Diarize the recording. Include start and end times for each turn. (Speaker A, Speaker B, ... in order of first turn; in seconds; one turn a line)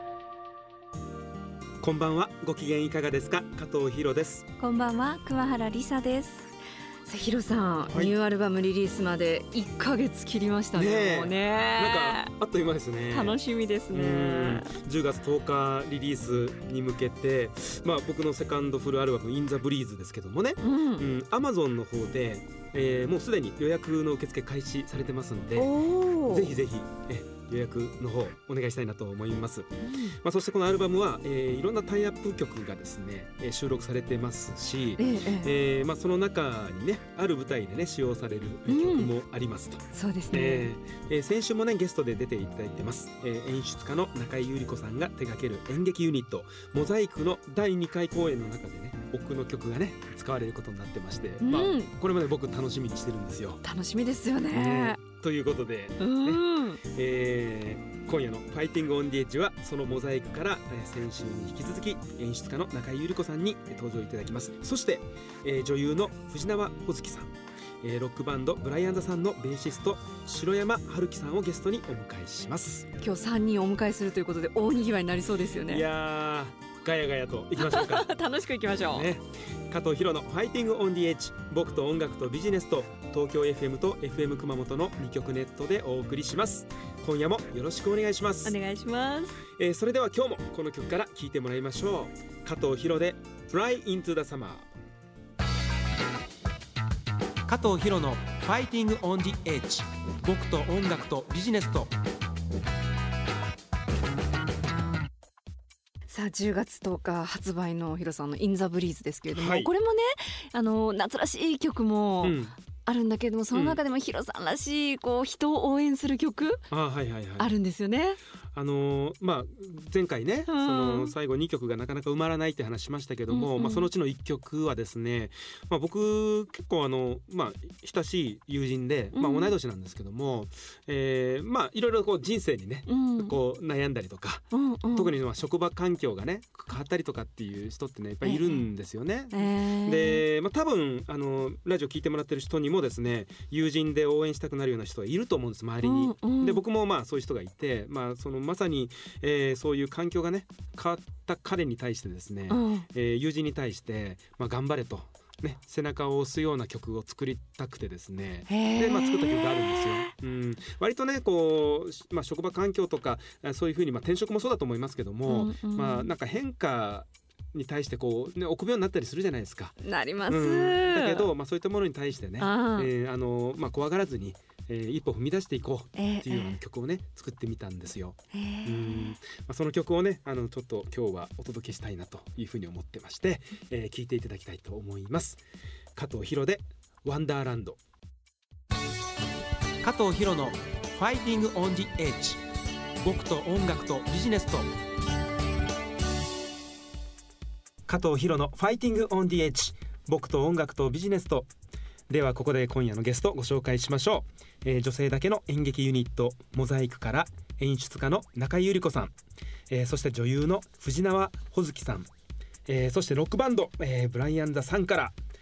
Speaker A: 1.8-4.5
Speaker B: 4.6-6.5
Speaker B: 7.1-12.3
Speaker A: 7.9-8.2
Speaker A: 10.7-13.4
Speaker B: 13.1-14.7
Speaker A: 13.9-29.7
Speaker B: 20.6-21.1
Speaker B: 25.6-26.5
Speaker B: 29.8-30.2
Speaker A: 30.2-53.6
Speaker B: 35.0-35.6
Speaker B: 38.7-39.1
Speaker B: 39.9-40.7
Speaker B: 51.4-51.9
Speaker B: 53.6-55.0
Speaker A: 54.5-72.9
Speaker B: 56.0-56.8
Speaker B: 73.0-75.8
Speaker A: 75.7-78.1
Speaker B: 77.6-79.1
Speaker A: 78.9-88.6
Speaker B: 88.4-89.4
Speaker A: 89.6-94.7
Speaker A: 97.5-101.9
Speaker B: 106.1-116.7
Speaker A: 109.3-109.7
Speaker A: 112.2-112.5
Speaker A: 113.5-113.8
Speaker A: 116.7-117.5
Speaker B: 117.4-118.2
Speaker A: 118.5-169.8
Speaker B: 120.5-121.1
Speaker B: 123.3-123.9
Speaker B: 129.2-129.6
Speaker B: 132.9-133.4
Speaker B: 134.5-135.1
Speaker B: 138.2-138.7
Speaker B: 139.3-140.2
Speaker B: 145.8-146.6
Speaker B: 152.5-152.9
Speaker B: 158.5-160.1
Speaker B: 165.3-166.1
Speaker B: 169.8-171.3
Speaker A: 170.3-185.4
Speaker B: 172.4-172.9
Speaker B: 175.9-176.6
Speaker B: 178.3-179.1
Speaker A: 186.0-187.8
Speaker A: 189.8-192.4
Speaker A: 193.0-194.7
Speaker A: 197.9-201.5
Speaker A: 202.1-209.1
Speaker A: 209.7-212.1
Speaker A: 212.7-215.2